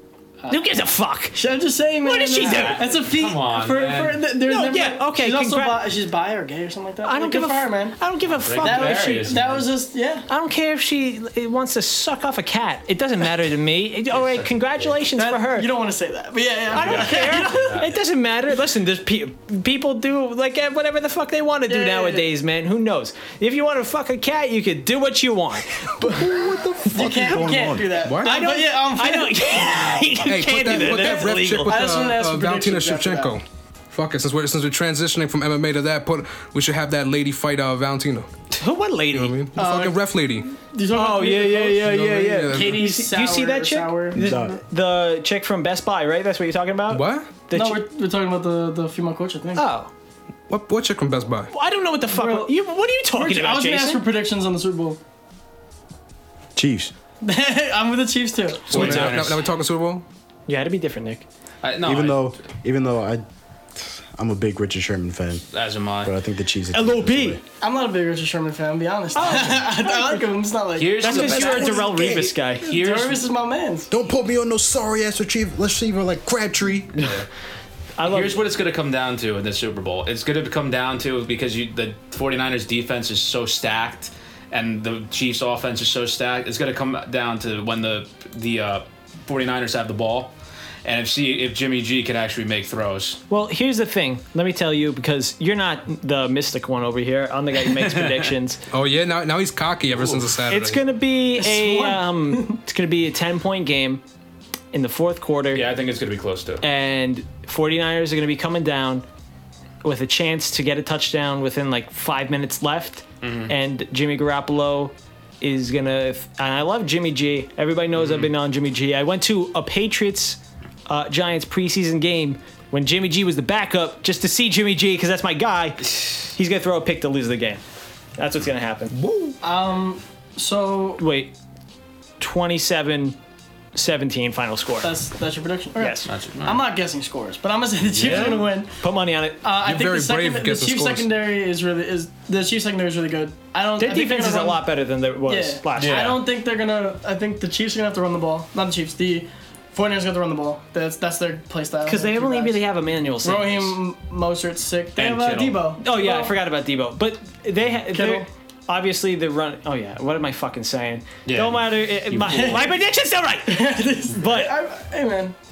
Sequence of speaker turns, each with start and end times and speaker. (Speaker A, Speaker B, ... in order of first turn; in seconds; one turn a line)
Speaker A: 0.5-1.4
Speaker B: 1.4-8.0
Speaker A: 2.0-2.8
Speaker C: 2.3-4.2
Speaker A: 4.4-5.8
Speaker A: 7.0-9.3
Speaker C: 8.3-9.7
Speaker B: 8.6-10.3
Speaker A: 10.3-15.7
Speaker C: 14.1-14.9
Speaker B: 15.2-17.8
Speaker C: 16.7-17.9
Speaker A: 16.7-26.3
Speaker B: 21.7-22.3
Speaker D: 26.1-28.0
Speaker B: 26.9-30.0
Speaker E: 28.0-28.4
Speaker A: 28.2-31.9
Speaker E: 30.2-38.3
Speaker B: 30.7-33.4
Speaker A: 38.6-39.4
Speaker E: 39.1-40.5
Speaker B: 39.6-42.0
Speaker A: 40.9-47.8
Speaker E: 41.8-42.9
Speaker B: 42.5-44.6
Speaker D: 44.1-44.6
Speaker E: 46.9-47.3
Speaker B: 47.5-49.7
Speaker A: 49.5-49.9
Speaker E: 50.5-51.5
Speaker A: 51.5-54.0
Speaker B: 52.1-52.5
Speaker B: 53.1-55.0
Speaker D: 56.6-56.9
Speaker B: 57.2-59.1
Speaker C: 58.7-59.4
Speaker E: 58.7-60.0
Speaker A: 58.8-59.1
Speaker A: 60.5-61.3
Speaker C: 61.6-62.3
Speaker D: 61.8-63.2
Speaker D: 63.8-65.4
Speaker C: 65.5-66.1
Speaker D: 66.0-67.4
Speaker A: 66.7-67.4
Speaker B: 67.6-73.9
Speaker A: 69.1-70.3
Speaker C: 70.8-73.3
Speaker A: 71.0-72.7
Speaker D: 73.9-77.1
Speaker C: 77.0-77.3
Speaker A: 78.0-78.4
Speaker C: 78.0-90.3
Speaker C: 90.8-93.2
Speaker A: 93.3-98.6
Speaker C: 97.6-98.3
Speaker E: 98.7-100.8
Speaker C: 99.9-100.3
Speaker A: 100.5-104.0
Speaker B: 101.4-102.6
Speaker A: 104.7-105.7
Speaker C: 105.5-106.6
Speaker A: 106.6-109.0
Speaker A: 109.8-127.6
Speaker C: 113.2-113.5
Speaker C: 118.0-118.3
Speaker A: 128.2-128.9
Speaker E: 128.9-129.4
Speaker B: 129.4-131.0
Speaker A: 131.0-131.3
Speaker A: 132.2-133.2
Speaker A: 133.7-134.9
Speaker B: 134.8-138.7
Speaker A: 135.8-136.1
Speaker C: 136.1-136.6
Speaker C: 137.9-138.5
Speaker E: 138.0-138.4
Speaker A: 138.1-139.4
Speaker B: 139.4-144.6
Speaker E: 139.6-141.1
Speaker A: 143.8-146.1
Speaker B: 145.3-152.6
Speaker C: 145.8-146.2
Speaker A: 151.9-153.8
Speaker B: 153.2-156.4
Speaker C: 155.0-155.7
Speaker A: 155.8-164.5
Speaker B: 157.9-158.3
Speaker C: 161.3-162.7
Speaker B: 162.3-162.7
Speaker B: 163.5-165.4